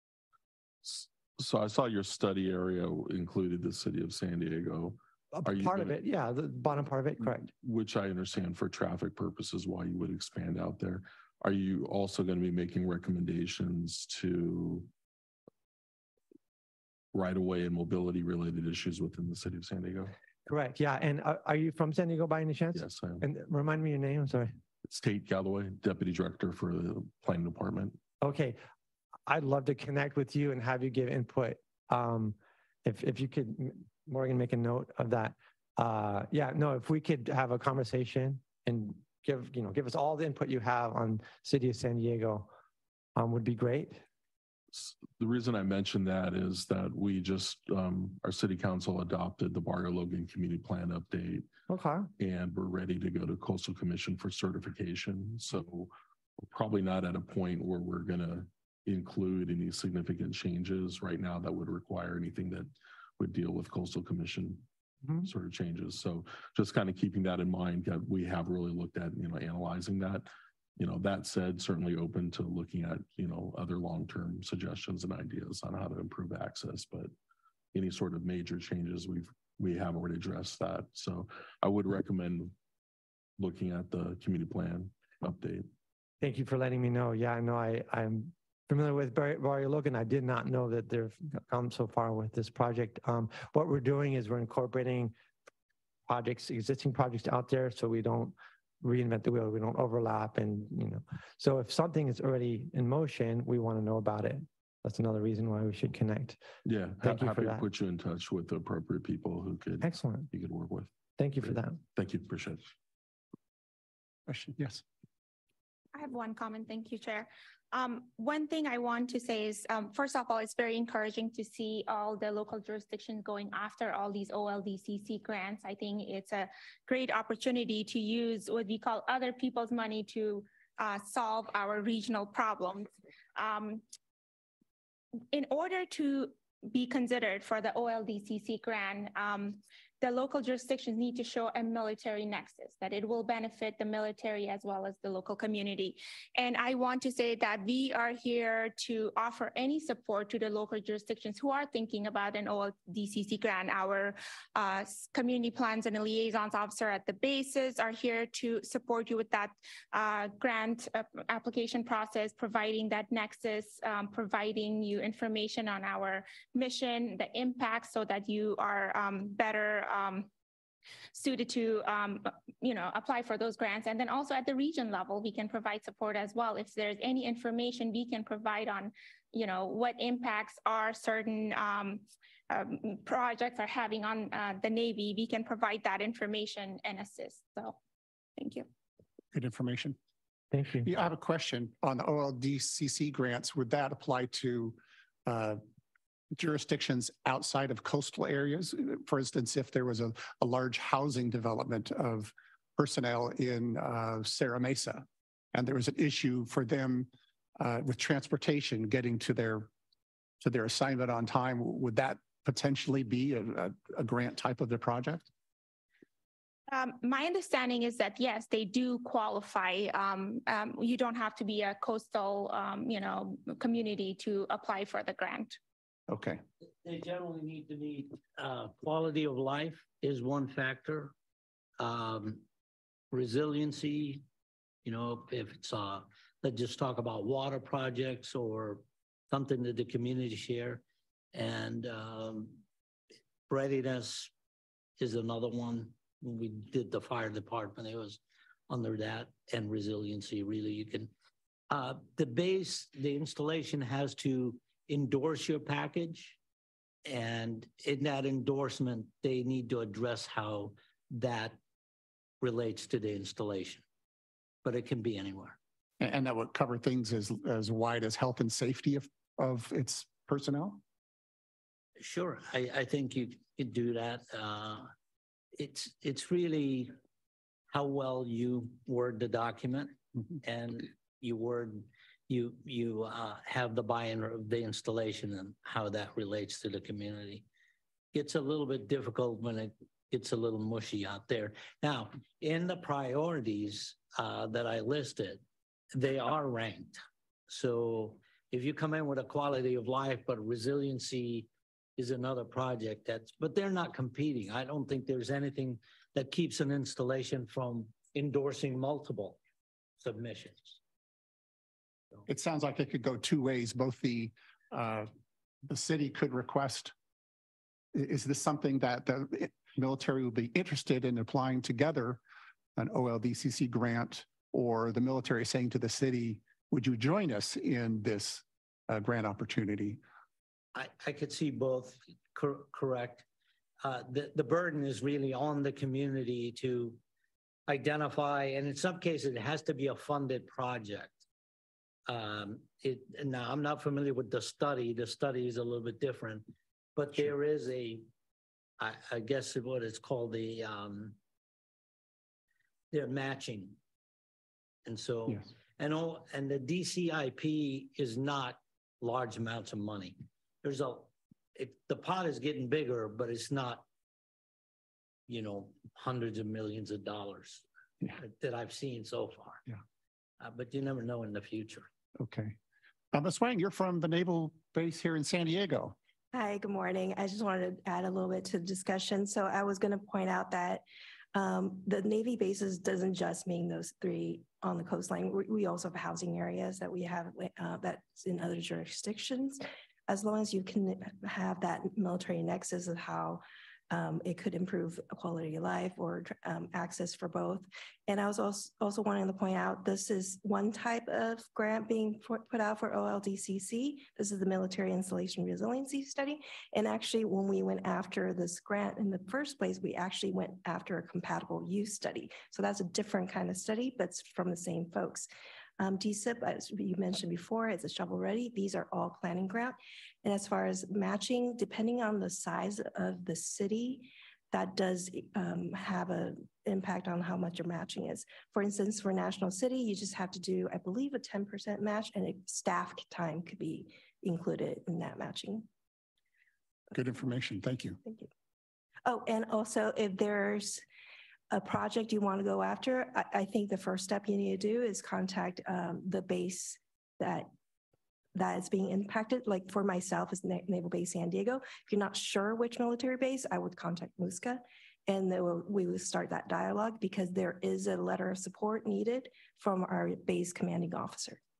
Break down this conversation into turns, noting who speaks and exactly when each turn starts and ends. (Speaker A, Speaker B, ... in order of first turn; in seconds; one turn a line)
Speaker A: 0.8-6.0
Speaker B: 5.3-7.5
Speaker A: 7.6-14.9
Speaker A: 17.1-20.1
Speaker B: 20.4-24.5
Speaker A: 22.7-23.2
Speaker A: 24.9-28.0
Speaker B: 28.2-28.6
Speaker B: 29.3-42.5
Speaker B: 43.1-44.0
Speaker A: 44.7-51.5
Speaker B: 51.7-52.1
Speaker A: 52.2-64.6
Speaker A: 65.2-77.1
Speaker A: 77.7-82.5
Speaker A: 83.4-85.7
Speaker B: 86.2-95.1
Speaker B: 96.1-106.4
Speaker A: 106.6-112.7
Speaker B: 107.0-107.6
Speaker B: 109.8-110.3
Speaker B: 111.2-111.8
Speaker C: 114.3-114.8
Speaker D: 115.9-133.8
Speaker D: 135.3-170.3
Speaker D: 171.1-187.8
Speaker D: 188.4-188.7
Speaker C: 189.3-190.0
Speaker B: 190.5-190.9
Speaker C: 190.8-195.6
Speaker C: 196.3-209.7
Speaker C: 210.4-215.3
Speaker D: 216.7-225.6
Speaker C: 226.1-226.4
Speaker E: 226.8-231.1
Speaker E: 231.8-232.4
Speaker E: 233.1-234.2
Speaker E: 234.8-240.8
Speaker E: 241.3-242.6
Speaker E: 243.5-244.3
Speaker E: 245.0-251.1
Speaker E: 251.7-256.4
Speaker E: 257.0-261.6
Speaker E: 262.4-263.8
Speaker E: 264.6-265.6
Speaker C: 266.0-270.8
Speaker E: 272.0-274.9
Speaker E: 275.6-276.9
Speaker E: 277.7-287.4
Speaker E: 288.1-295.4
Speaker E: 295.9-309.4
Speaker E: 310.0-310.8
Speaker C: 312.2-315.1
Speaker C: 315.6-316.9
Speaker C: 317.9-322.2
Speaker C: 322.8-330.0
Speaker E: 330.7-333.2
Speaker E: 333.8-337.0
Speaker E: 337.7-341.2
Speaker E: 342.1-348.1
Speaker E: 348.8-351.1
Speaker E: 352.9-353.8
Speaker E: 354.8-363.8
Speaker E: 365.3-367.6
Speaker E: 368.1-369.6
Speaker E: 370.4-371.9
Speaker C: 372.2-372.6
Speaker C: 373.1-375.9
Speaker F: 376.3-435.6
Speaker C: 436.9-438.0
Speaker F: 438.0-438.3
Speaker F: 439.0-440.8
Speaker F: 441.5-447.5
Speaker F: 448.3-461.4